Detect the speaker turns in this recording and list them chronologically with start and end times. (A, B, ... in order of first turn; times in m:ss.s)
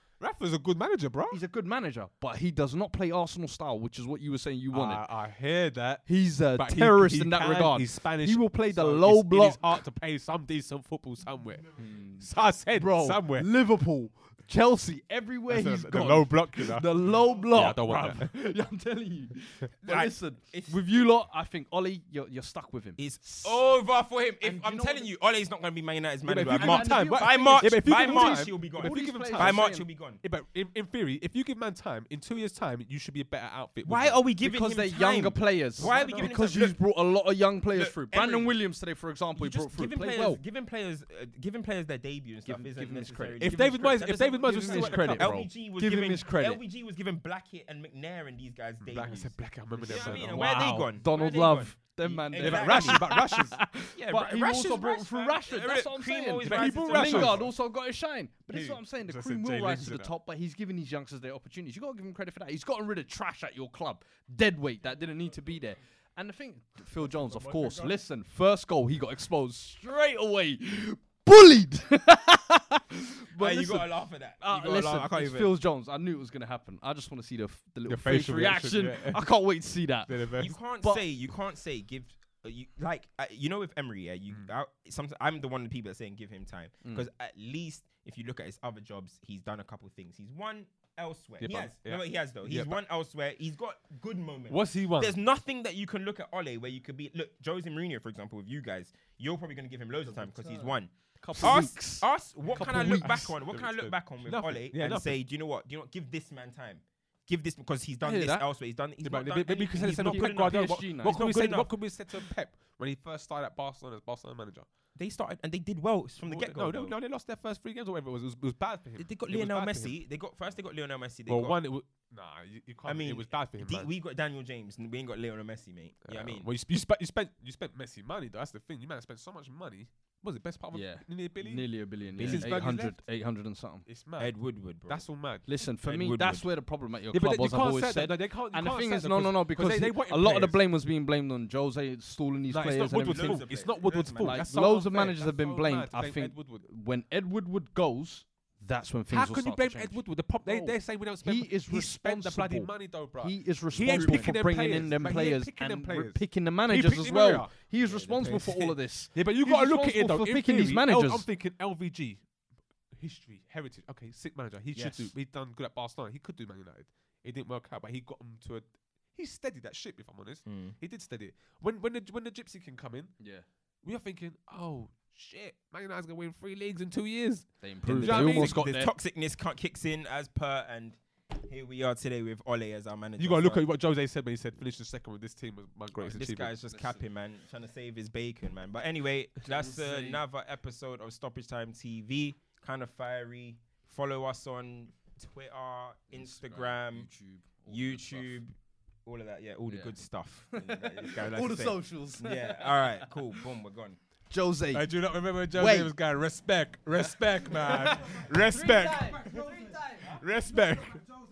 0:00.2-0:01.4 A
0:01.3-0:05.1 B
0:04.7-0:11.7 A
0:06.1-0:09.7 B
0:11.8-0:23.8 B
0:12.2-0:13.5 A
0:15.5-0:16.9 A
0:17.5-0:18.3 A
0:19.8-0:20.9 C
0:23.0-0:30.2 C
0:24.4-0:25.1 B
0:26.2-0:29.6 A
0:26.5-0:29.9 B
0:30.2-0:34.2 A
0:33.8-0:36.8 C
0:34.4-0:40.4 B
0:35.8-0:36.3 A
0:37.7-0:38.6 C
0:39.4-0:53.1 C
0:42.5-0:46.6 B
0:43.4-0:45.3 A
0:48.8-0:50.9 A
0:49.9-1:20.2 B
0:52.4-0:53.6 A
0:53.9-0:57.5 C
0:56.4-0:57.5 A
0:58.5-0:58.8 C
0:59.1-1:00.1 A
1:07.1-1:08.0 A
1:13.4-1:15.5 C
1:17.9-1:19.2 A
1:20.1-1:20.6 A
1:20.4-1:51.7 C
1:31.4-1:32.8 A
1:34.5-1:35.2 A
1:40.2-1:43.3 B
1:42.6-1:45.2 A
1:48.0-1:48.5 B
1:49.0-1:54.7 A
1:49.8-1:51.3 B
1:55.0-1:57.0 C
1:56.2-2:00.0 A
1:59.0-2:01.6 C
2:01.3-2:03.9 A
2:02.9-2:06.5 C
2:06.1-2:13.0 A
2:10.7-2:13.9 B
2:12.2-2:12.6 C
2:13.8-2:14.4 A
2:14.2-2:15.0 C
2:14.9-2:15.5 A
2:15.5-2:23.6 B
2:15.8-2:16.4 C
2:17.1-2:20.6 A
2:22.5-2:26.6 A
2:23.0-2:24.4 C
2:24.2-2:41.3 B
2:29.1-2:42.2 A
2:33.9-2:34.3 C
2:43.0-2:53.1 A
2:44.7-2:45.1 B
2:50.4-2:50.8 C
2:53.2-2:53.4 B
2:53.8-2:58.6 A
2:57.6-2:58.9 B
2:58.0-3:03.6 C
3:03.2-3:06.5 A
3:06.0-3:17.1 C
3:09.4-3:10.2 B
3:16.2-3:18.4 B
3:17.7-3:24.0 C
3:19.7-3:19.9 B
3:20.5-3:23.1 B
3:24.3-3:24.9 B
3:24.7-3:29.3 A
3:25.5-3:25.9 B
3:27.5-3:30.1 B
3:30.0-3:31.1 A